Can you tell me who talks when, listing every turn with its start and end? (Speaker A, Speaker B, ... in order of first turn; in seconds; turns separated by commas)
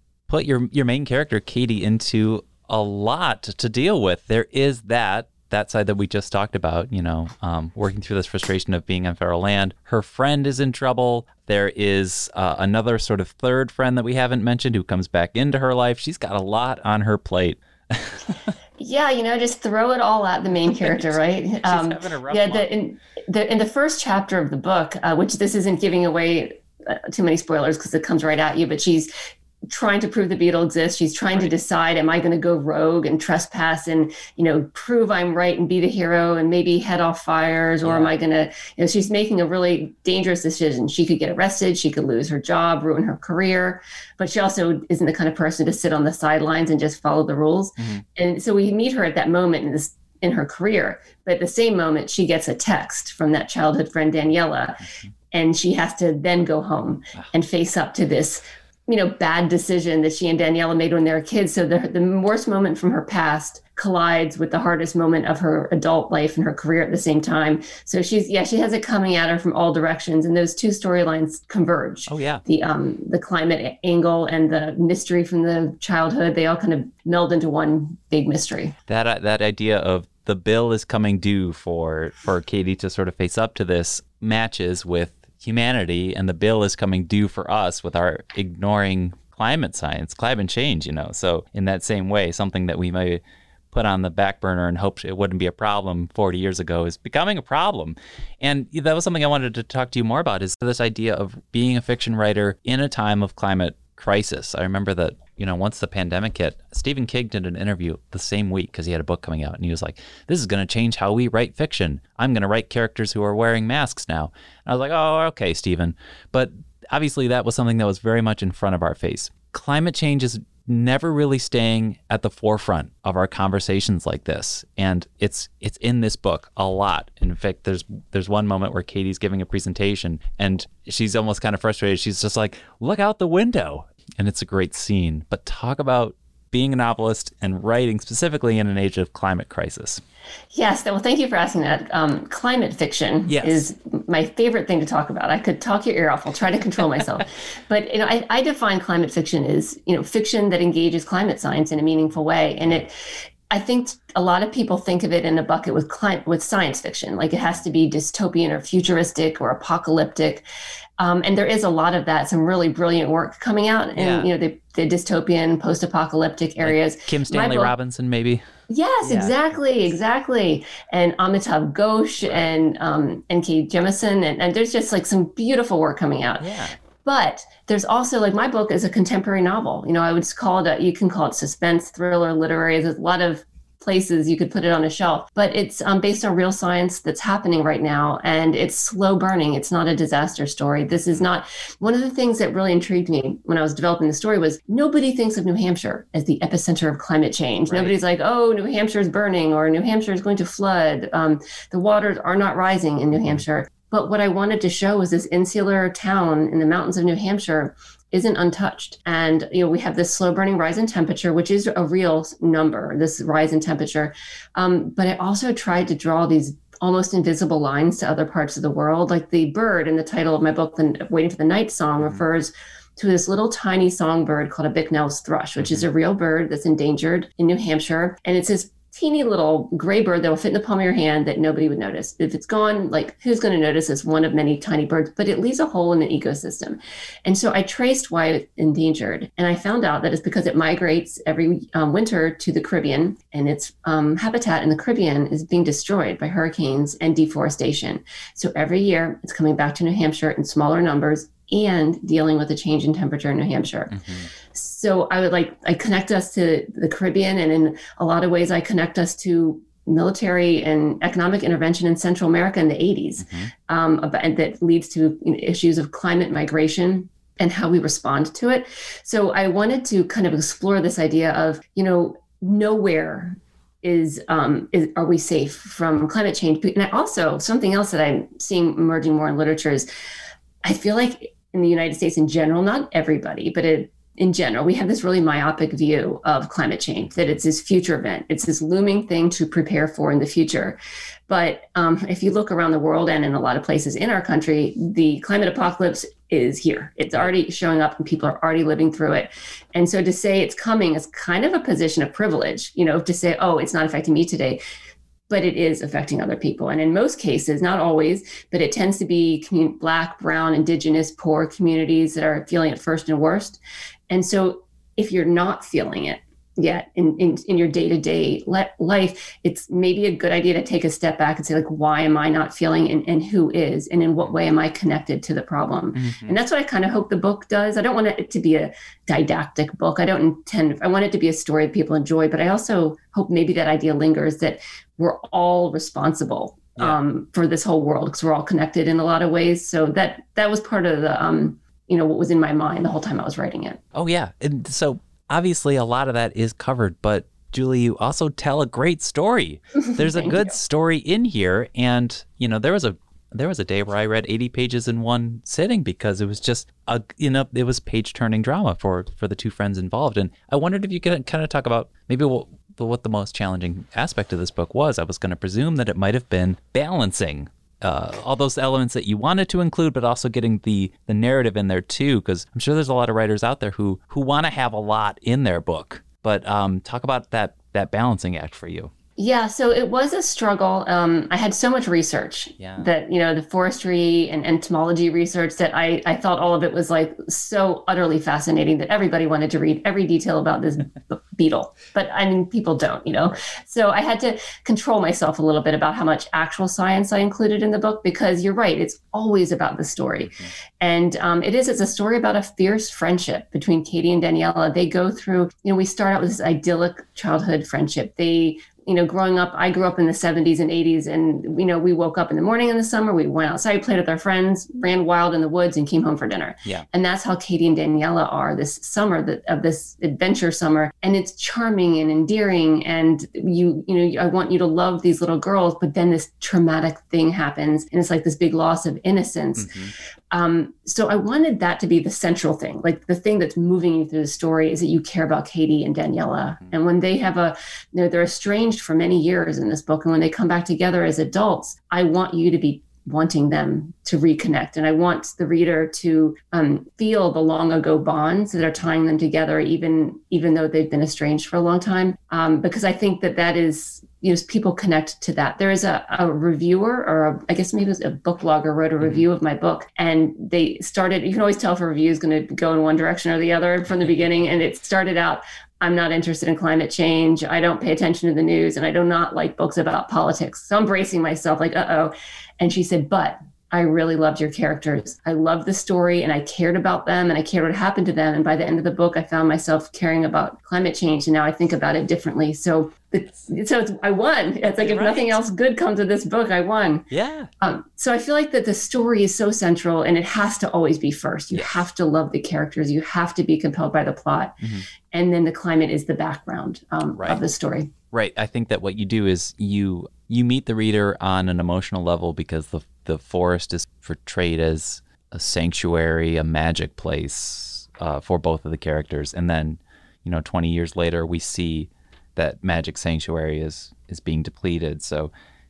Speaker A: 0.3-18.5, Speaker B: 18.8-29.1, Speaker A: 20.8-22.7, Speaker B: 29.7-78.7, Speaker A: 37.8-38.1, Speaker A: 47.8-48.0, Speaker A: 72.1-72.4, Speaker A: 78.9-140.0, Speaker B: 140.5-152.9, Speaker A: 143.3-143.6, Speaker B: 153.5-160.4, Speaker B: 161.0-167.7, Speaker A: 163.9-164.3, Speaker A: 166.6-168.4, Speaker B: 168.7-176.5, Speaker A: 169.0-169.4, Speaker A: 172.2-172.5, Speaker A: 176.4-176.7, Speaker B: 177.0-253.9, Speaker A: 197.7-197.9, Speaker A: 225.6-225.8, Speaker A: 253.9-254.3, Speaker B: 254.5-279.9, Speaker A: 263.2-263.5, Speaker B: 280.6-290.8, Speaker B: 291.3-304.6, Speaker B: 305.3-343.8, Speaker A: 325.9-326.3, Speaker A: 343.9-378.9, Speaker B: 349.8-350.5, Speaker B: 379.2-429.7, Speaker A: 382.6-382.9, Speaker A: 429.6-429.9, Speaker B: 430.3-487.1, Speaker A: 484.8-485.4, Speaker A: 487.1-487.5, Speaker B: 487.6-494.6, Speaker A: 491.5-491.8, Speaker A: 494.6-494.9, Speaker B: 495.1-497.9, Speaker A: 497.1-497.4, Speaker A: 498.1-515.3